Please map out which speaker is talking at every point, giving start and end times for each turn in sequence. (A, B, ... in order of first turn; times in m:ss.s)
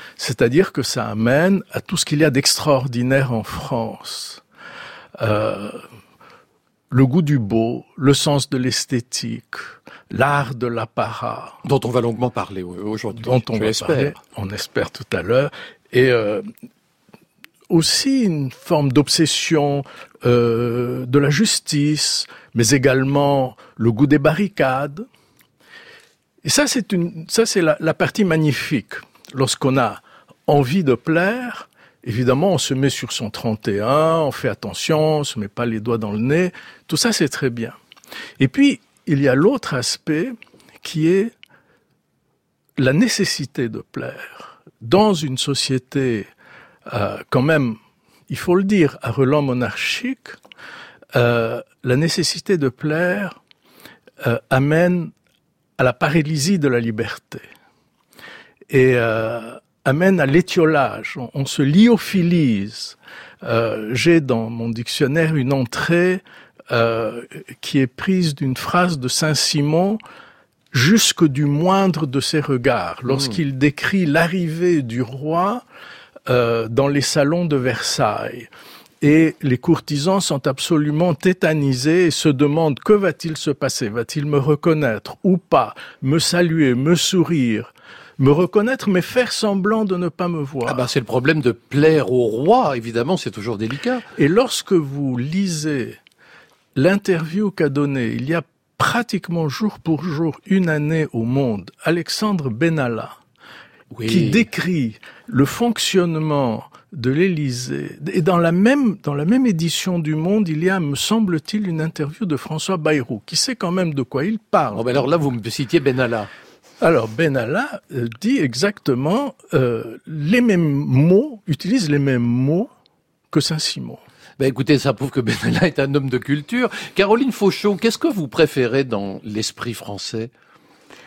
0:00.2-0:04.4 A
0:05.2-0:05.8 A
0:06.9-0:11.6 A
0:11.6-0:14.2 B
0:13.1-0:16.4 A
0:17.7-0:25.0 A
0:26.4-0:37.8 A
0:38.4-0:41.3 A
0:42.8-0:46.3 A
0:46.8-0:50.4 A
0:51.1-0:53.4 A
0:54.2-0:55.1 A
0:55.8-0:57.4 A
0:58.7-1:10.0 A
1:10.7-1:15.6 A
1:13.1-1:13.4 B
1:16.2-1:18.5 A
1:19.0-1:30.9 A
1:30.6-1:34.0 B
1:34.2-1:36.0 A
1:36.8-1:43.2 A
1:43.9-1:44.4 B
1:44.0-1:55.1 A
1:54.7-1:56.3 B
1:56.8-2:02.7 A
2:03.3-2:04.0 A
2:04.4-2:10.3 B